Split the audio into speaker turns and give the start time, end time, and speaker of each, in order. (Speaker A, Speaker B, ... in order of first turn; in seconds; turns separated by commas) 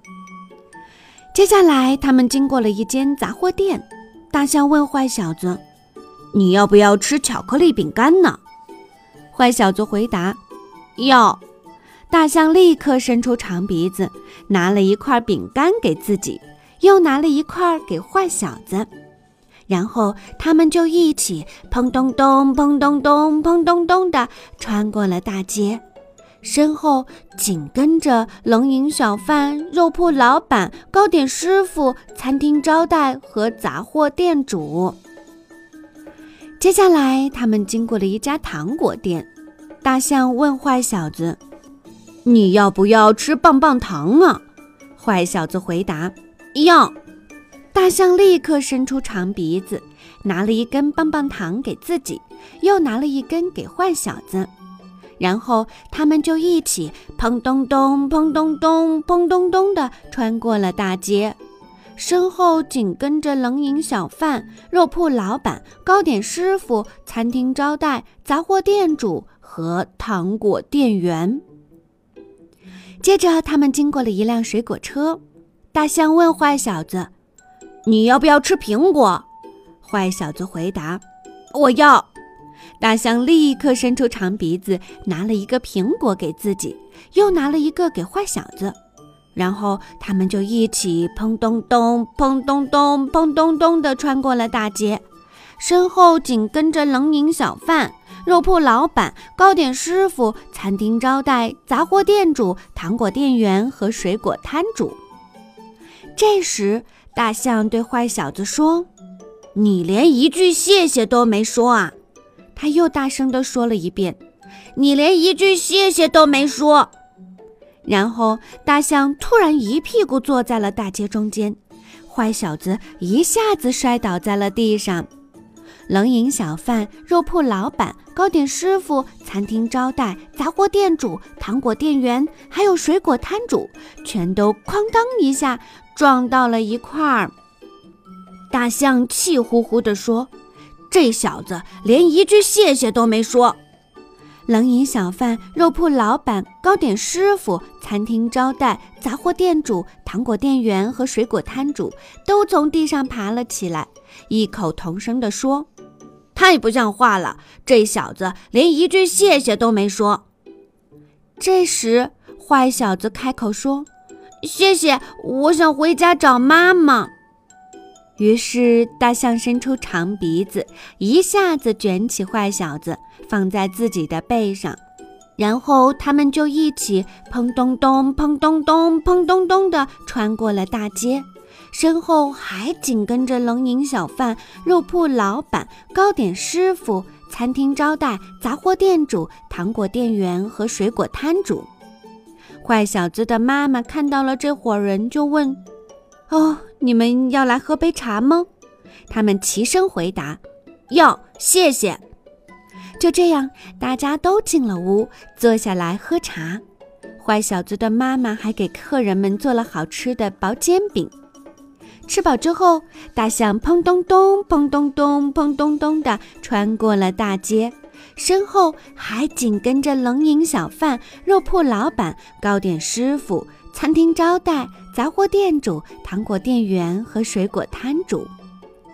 Speaker A: 1.3-5.6, Speaker A: 6.3-8.4, Speaker A: 9.3-10.4, Speaker A: 11.0-11.4, Speaker A: 12.1-18.9, Speaker A: 19.7-25.8, Speaker A: 26.4-35.0, Speaker A: 36.6-39.3, Speaker A: 39.8-41.4, Speaker A: 42.2-44.4, Speaker A: 45.0-47.0, Speaker A: 47.7-54.5, Speaker A: 55.2-61.4, Speaker A: 62.0-71.4, Speaker A: 73.0-75.2, Speaker A: 75.7-77.1, Speaker A: 77.8-79.3, Speaker A: 79.8-82.1, Speaker A: 82.8-88.8, Speaker A: 89.3-95.0, Speaker A: 95.6-105.0, Speaker A: 106.2-108.9, Speaker A: 109.5-112.0, Speaker A: 112.5-114.2, Speaker A: 114.8-116.9, Speaker A: 117.8-125.1, Speaker A: 125.9-137.3, Speaker A: 138.5-140.3, Speaker A: 140.9-143.6, Speaker A: 144.5-155.7, Speaker A: 156.3-160.2, Speaker A: 161.4-163.9, Speaker A: 164.4-167.1, Speaker A: 168.2-174.8, Speaker A: 175.4-191.7, Speaker A: 192.6-195.6, Speaker A: 196.3-198.5, Speaker A: 199.1-202.0, Speaker A: 203.0-206.6, Speaker A: 207.2-211.1, Speaker A: 212.1-228.3